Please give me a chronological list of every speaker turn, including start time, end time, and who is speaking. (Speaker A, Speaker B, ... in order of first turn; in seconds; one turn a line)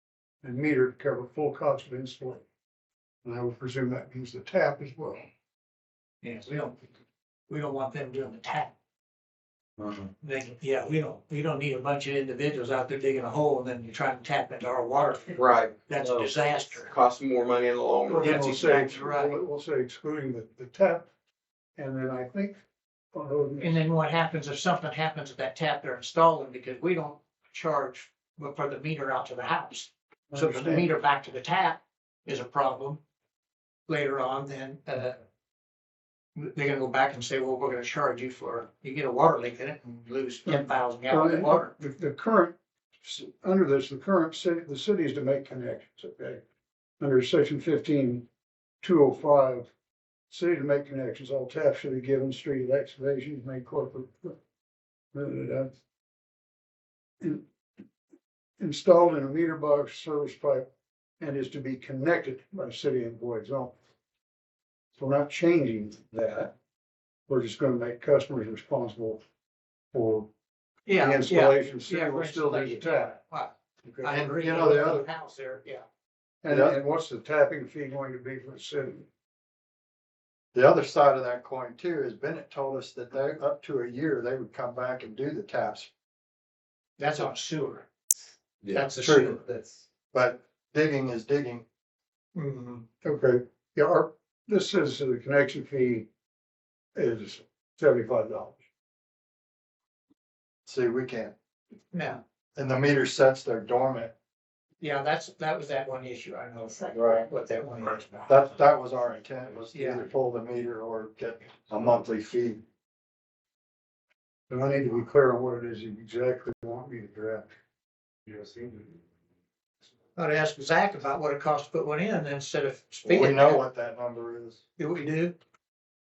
Speaker A: 0.4-2.4
Speaker A: 3.2-5.3
Speaker B: 6.2-6.8
Speaker B: 7.5-8.7
Speaker B: 10.2-16.9
Speaker C: 15.3-18.9
Speaker A: 18.1-21.1
Speaker B: 18.2-19.4
Speaker A: 21.8-22.6
Speaker A: 23.1-23.8
Speaker B: 23.6-33.0
Speaker A: 30.3-30.9
Speaker B: 33.9-35.2
Speaker B: 36.4-41.7
Speaker A: 40.5-46.4
Speaker A: 47.0-48.2
Speaker A: 48.8-49.7
Speaker A: 50.3-54.4
Speaker A: 55.1-55.7
Speaker A: 58.6-60.7
Speaker A: 61.2-63.7
Speaker A: 65.0-66.5
Speaker A: 67.3-69.2
Speaker A: 69.9-70.3
Speaker B: 70.9-75.8
Speaker A: 70.9-73.2
Speaker D: 74.0-75.0
Speaker A: 76.4-79.1
Speaker D: 76.5-76.8
Speaker D: 80.5-85.9
Speaker B: 87.0-87.9
Speaker B: 88.7-89.7
Speaker D: 89.0-89.5
Speaker D: 90.1-91.6
Speaker B: 92.3-92.9
Speaker A: 93.0-96.1
Speaker A: 96.9-98.6
Speaker D: 100.7-101.3
Speaker B: 101.9-102.2
Speaker D: 102.5-104.1
Speaker B: 104.8-108.4
Speaker D: 106.9-107.2
Speaker D: 108.3-112.6
Speaker B: 109.7-110.1
Speaker A: 114.5-117.5
Speaker A: 118.3-118.7
Speaker B: 120.2-123.6
Speaker D: 123.0-124.6
Speaker B: 124.8-125.3